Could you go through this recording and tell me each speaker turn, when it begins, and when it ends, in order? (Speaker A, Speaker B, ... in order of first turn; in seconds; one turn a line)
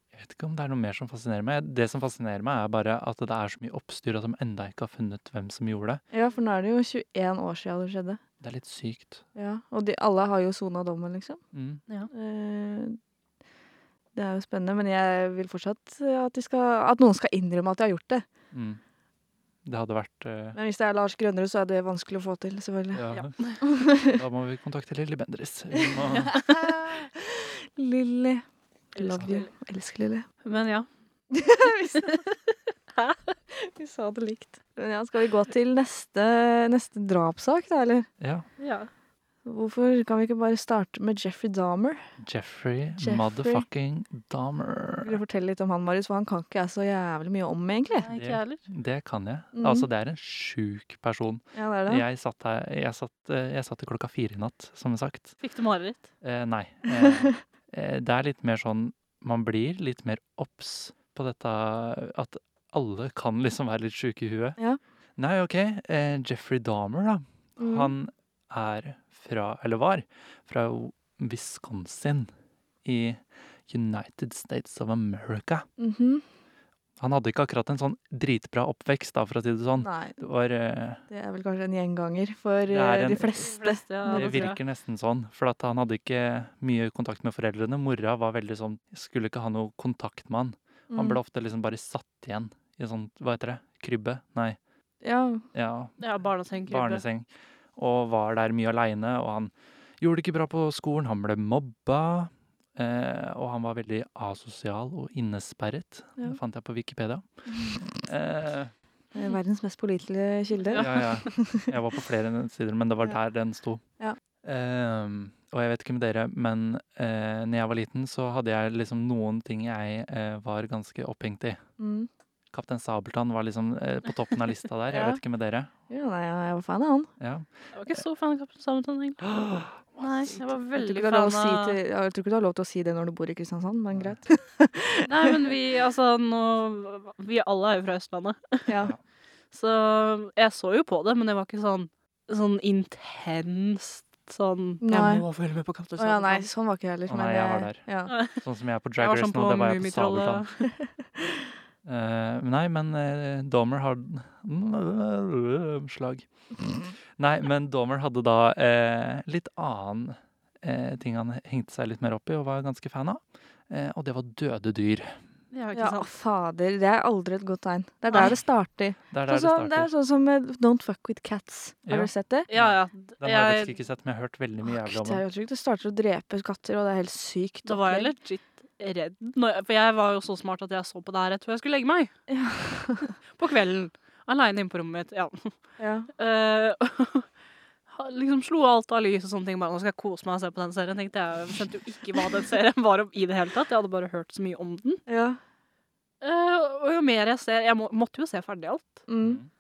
Speaker A: 0.1-6.0
Speaker B: 6.1-8.2
Speaker A: 8.4-9.2
Speaker B: 9.4-11.4
Speaker A: 11.5-11.8
Speaker B: 12.1-13.0
Speaker B: 14.2-18.2
Speaker A: 18.5-18.8
Speaker A: 19.6-20.6
Speaker B: 20.6-23.0
Speaker A: 22.9-26.4
Speaker C: 23.1-23.6
Speaker B: 23.6-24.2
Speaker B: 25.7-30.3
Speaker C: 26.1-26.6
Speaker C: 29.0-29.5
Speaker C: 30.4-30.9
Speaker B: 31.3-32.4
Speaker B: 33.5-38.1
Speaker A: 38.2-38.5
Speaker C: 38.6-38.9
Speaker B: 39.5-42.0
Speaker A: 42.2-45.2
Speaker B: 43.0-43.6
Speaker B: 45.0-48.1
Speaker C: 47.9-48.6
Speaker A: 48.1-55.4
Speaker B: 49.5-49.9
Speaker B: 51.5-52.0
Speaker C: 55.4-56.1
Speaker A: 56.2-64.6
Speaker B: 57.0-57.4
Speaker A: 65.2-72.3
Speaker B: 67.6-67.9
Speaker A: 72.8-75.7
Speaker B: 75.8-76.2
Speaker A: 77.0-81.0
Speaker B: 79.8-80.2
Speaker B: 81.1-84.5
Speaker A: 82.7-83.4
Speaker C: 83.4-84.6
Speaker A: 84.1-94.6
Speaker B: 90.9-91.2
Speaker B: 95.0-95.5
Speaker A: 95.5-96.0
Speaker C: 96.0-97.0
Speaker A: 96.7-107.2
Speaker B: 107.5-108.0
Speaker A: 107.8-108.7
Speaker B: 109.2-111.7
Speaker C: 110.6-111.3
Speaker A: 110.8-113.8
Speaker A: 114.4-121.6
Speaker B: 121.8-122.1
Speaker A: 122.5-125.7
Speaker B: 124.9-125.2
Speaker B: 125.9-127.1
Speaker A: 127.2-128.0
Speaker C: 127.8-129.4
Speaker A: 129.2-130.4
Speaker C: 130.0-131.8
Speaker B: 130.8-135.4
Speaker C: 135.1-138.8
Speaker B: 138.7-138.9
Speaker C: 139.5-146.5
Speaker B: 144.8-145.2
Speaker B: 146.0-148.1
Speaker A: 147.1-150.4
Speaker C: 148.1-148.4
Speaker C: 149.0-150.7
Speaker A: 151.8-165.2
Speaker C: 165.5-166.1
Speaker B: 165.7-172.5
Speaker A: 169.1-169.9
Speaker A: 171.9-175.2
Speaker C: 172.5-173.7
Speaker B: 174.6-178.1
Speaker C: 177.7-182.1
Speaker B: 182.3-183.2
Speaker C: 183.3-185.6
Speaker B: 185.8-186.1
Speaker C: 186.2-187.3
Speaker C: 187.9-195.0
Speaker B: 195.1-195.4
Speaker C: 196.2-199.1
Speaker B: 199.1-199.4
Speaker A: 199.2-199.5